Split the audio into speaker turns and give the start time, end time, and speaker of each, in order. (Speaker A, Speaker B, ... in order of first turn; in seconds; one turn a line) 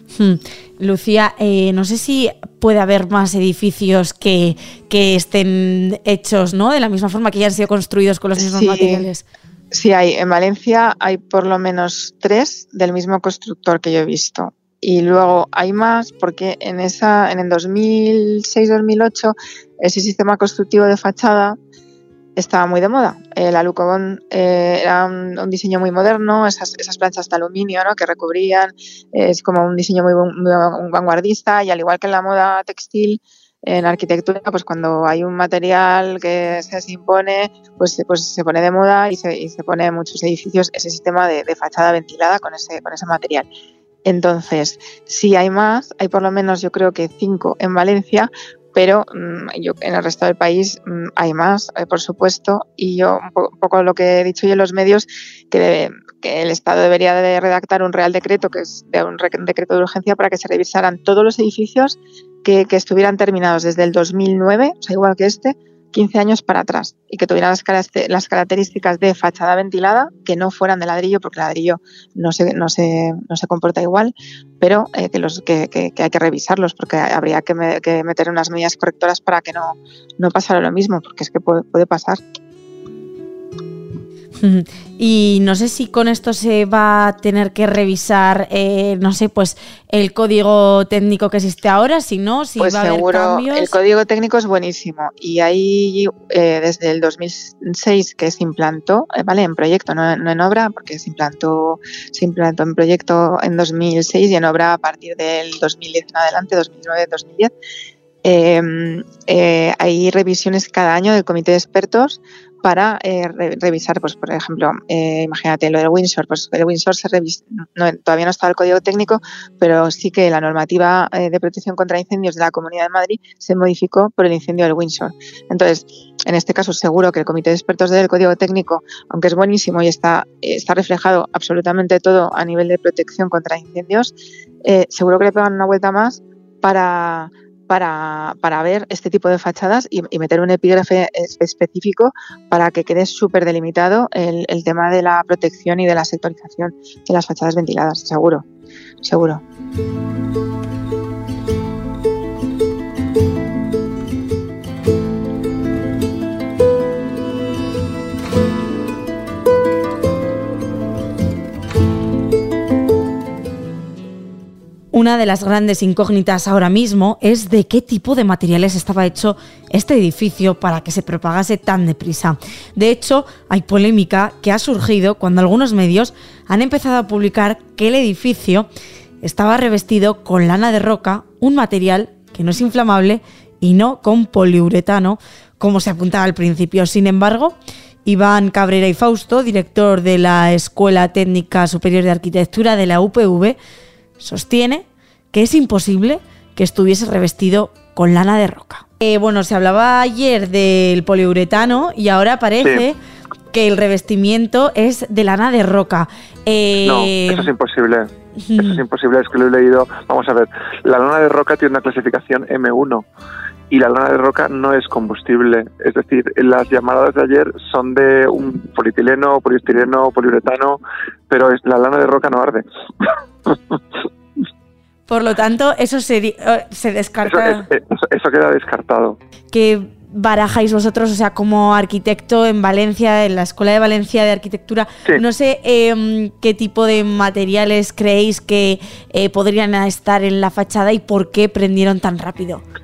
Speaker A: 0.1-9.2
Speaker B: 8.4-9.1
Speaker B: 9.7-21.6
Speaker B: 22.4-43.5
Speaker B: 44.0-82.2
Speaker A: 84.4-93.8
Speaker B: 92.6-107.5
Speaker B: 108.2-134.1
Speaker B: 134.6-148.4
Speaker B: 149.0-149.4
Speaker A: 164.9-178.7
Speaker A: 179.2-193.6
Speaker A: 194.2-203.0
Speaker A: 203.5-207.4
Speaker C: 206.8-213.1
Speaker A: 208.4-208.8
Speaker C: 213.7-223.8
Speaker A: 225.1-227.6
Speaker C: 227.2-229.2
Speaker A: 229.5-242.6